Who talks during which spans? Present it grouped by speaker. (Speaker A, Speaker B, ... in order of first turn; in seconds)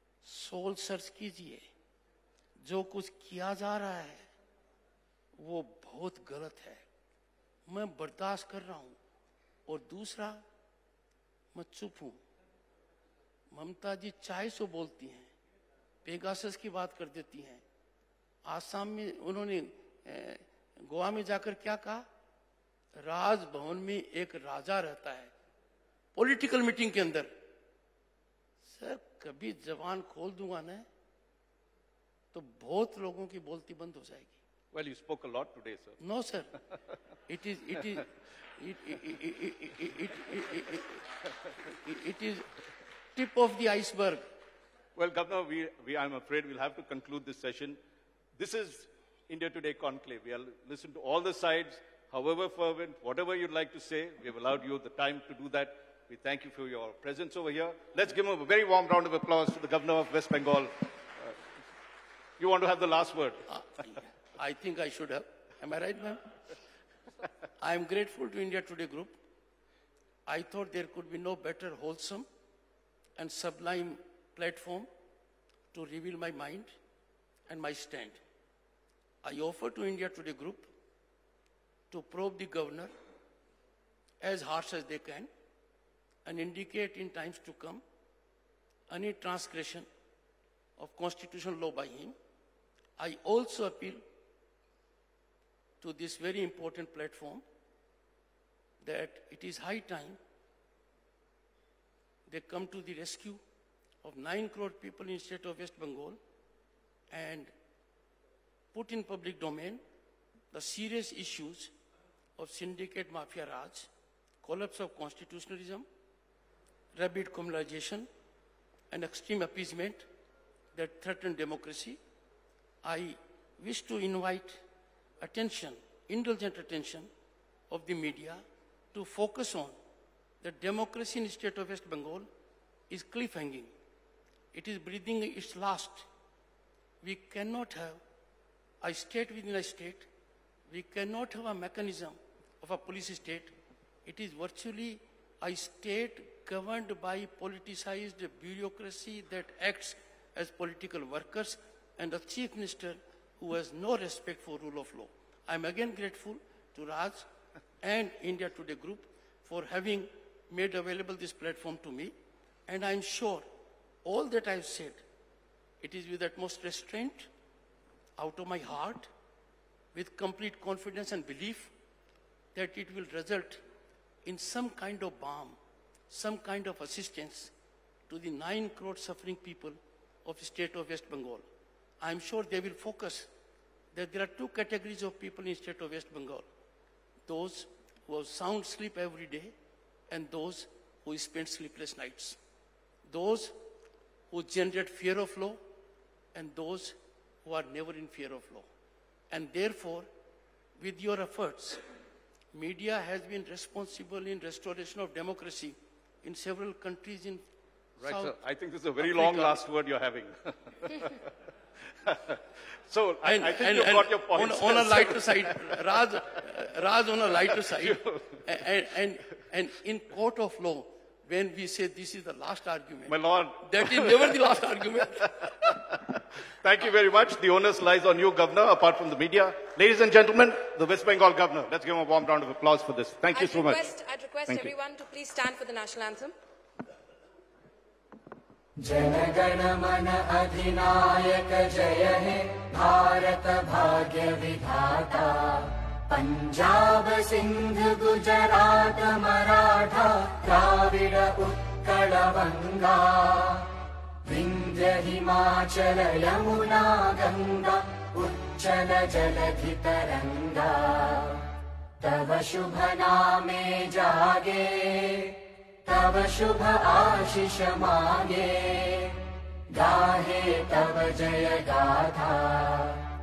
Speaker A: 0.2-1.6, 2.6-4.3, 5.4-6.8, 7.7-8.9, 9.7-10.4, 11.5-12.2, 13.5-15.3, 16.0-17.6, 18.4-22.1, 22.9-25.3, 26.1-27.3, 28.6-30.9, 32.3-34.3, 36.0-36.5, 37.3-41.0, 41.6-42.5, 43.1-44.2, 63.5-66.2, 67.6-69.2, 70.3-72.2, 73.2-74.9, 75.7-76.7, 77.5-78.2, 79.2-80.7, 81.9-82.9, 84.2-85.3, 86.2-87.8, 88.9-89.8, 90.8-92.1, 93.0-94.0, 95.8-97.4, 98.8-100.2, 102.3-103.4, 104.0-106.2, 107.1-107.5, 108.7-109.8, 110.5-111.7, 112.4-113.9, 114.4-115.8, 116.9-118.1, 118.9-120.0, 120.7-122.0, 122.8-124.6, 125.2-127.1, 127.7-128.4, 128.9-129.7, 130.4-132.3, 132.9-133.7, 134.5-136.1, 137.0-138.0, 138.8-140.1, 140.7-143.5, 144.1-157.2, 157.8-162.1, 162.7-163.4, 164.0-165.0, 165.8-167.3, 168.2-169.1, 169.9-171.7, 172.5-173.6, 174.2-175.6, 176.1-177.5, 178.1-181.4, 182.0-183.3, 183.9-186.4, 187.3-189.5, 190.1-192.4, 193.1-193.5, 194.3-195.6, 196.3-198.7, 199.3-200.1, 200.8-201.8, 202.5-207.4, 208.0-208.3, 209.0-209.6, 213.2-225.3
Speaker B: 34.7-36.0, 45.0-47.8, 48.4-61.4, 62.4-63.5, 208.0-211.3, 212.0-216.4, 217.4-218.6, 223.1-233.9
Speaker C: 233.3-236.3
Speaker D: 238.8-253.7, 254.2-261.4, 262.0-273.1